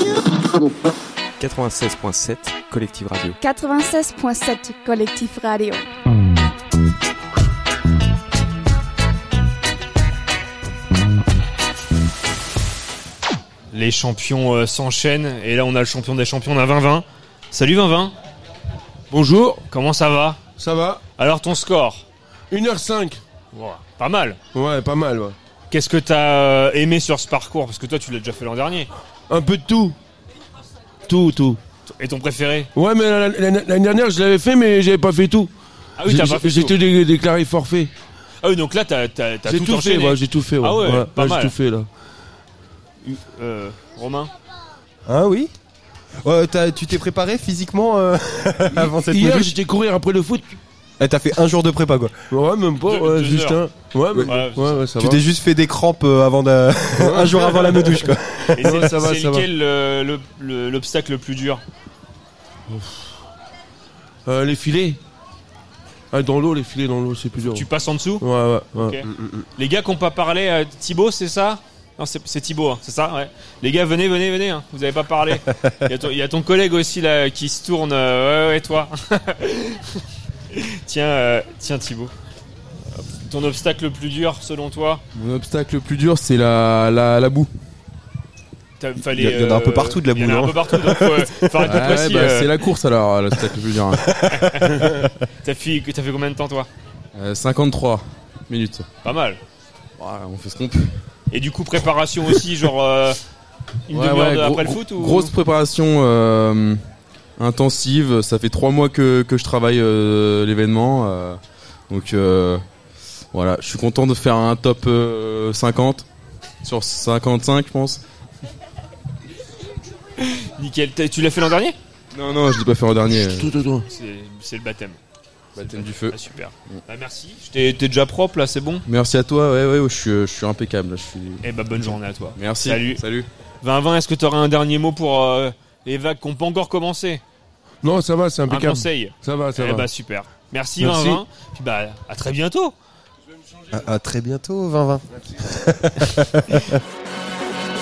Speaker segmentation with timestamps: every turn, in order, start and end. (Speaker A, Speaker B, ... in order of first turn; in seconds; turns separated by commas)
Speaker A: 1.4-3.4, Speaker B: 3.4-5.8, Speaker C: 13.7-18.1, Speaker D: 19.1-19.6, Speaker C: 19.7-20.4, Speaker D: 20.6-21.0, Speaker C: 21.2-22.0, Speaker D: 22.5-23.2, Speaker C: 23.5-24.4, Speaker D: 24.5-25.4, Speaker C: 25.7-28.9, Speaker D: 29.3-29.9, Speaker D: 31.1-31.6, Speaker C: 31.9-32.7, Speaker D: 32.7-35.5, Speaker C: 36.0-36.8, Speaker D: 36.0-37.9, Speaker C: 38.4-41.5, Speaker D: 39.5-41.9, Speaker C: 43.0-44.3, Speaker E: 45.0-45.5, Speaker E: 46.2-49.5, Speaker D: 48.7-50.6, Speaker E: 51.0-52.2, Speaker D: 52.3-55.2, Speaker C: 52.9-53.6, Speaker C: 54.2-54.8, Speaker E: 55.0-58.7, Speaker D: 56.9-59.5, Speaker C: 58.5-61.6, Speaker D: 62.7-63.0, Speaker D: 64.2-65.0, Speaker D: 66.1-67.7, Speaker C: 67.5-82.1, Speaker D: 68.2-69.0, Speaker C: 82.9-85.0, Speaker F: 85.1-87.5, Speaker C: 88.8-92.5, Speaker E: 89.1-91.9, Speaker F: 91.6-94.1, Speaker E: 94.0-95.1, Speaker C: 94.3-96.7, Speaker F: 97.1-98.9, Speaker C: 99.0-99.4, Speaker F: 100.0-100.9, Speaker C: 101.3-103.2, Speaker C: 103.9-105.3, Speaker F: 103.9-106.8, Speaker F: 107.4-112.6, Speaker F: 113.3-116.1, Speaker F: 116.6-118.0, Speaker C: 120.2-121.8, Speaker F: 122.1-123.5, Speaker D: 123.2-123.9, Speaker C: 123.9-125.0, Speaker F: 125.5-126.2, Speaker C: 125.6-128.8, Speaker F: 128.8-133.3, Speaker C: 131.4-133.0, Speaker C: 133.6-137.2, Speaker D: 137.8-139.9, Speaker C: 138.5-142.7, Speaker D: 140.8-141.2, Speaker E: 143.7-146.8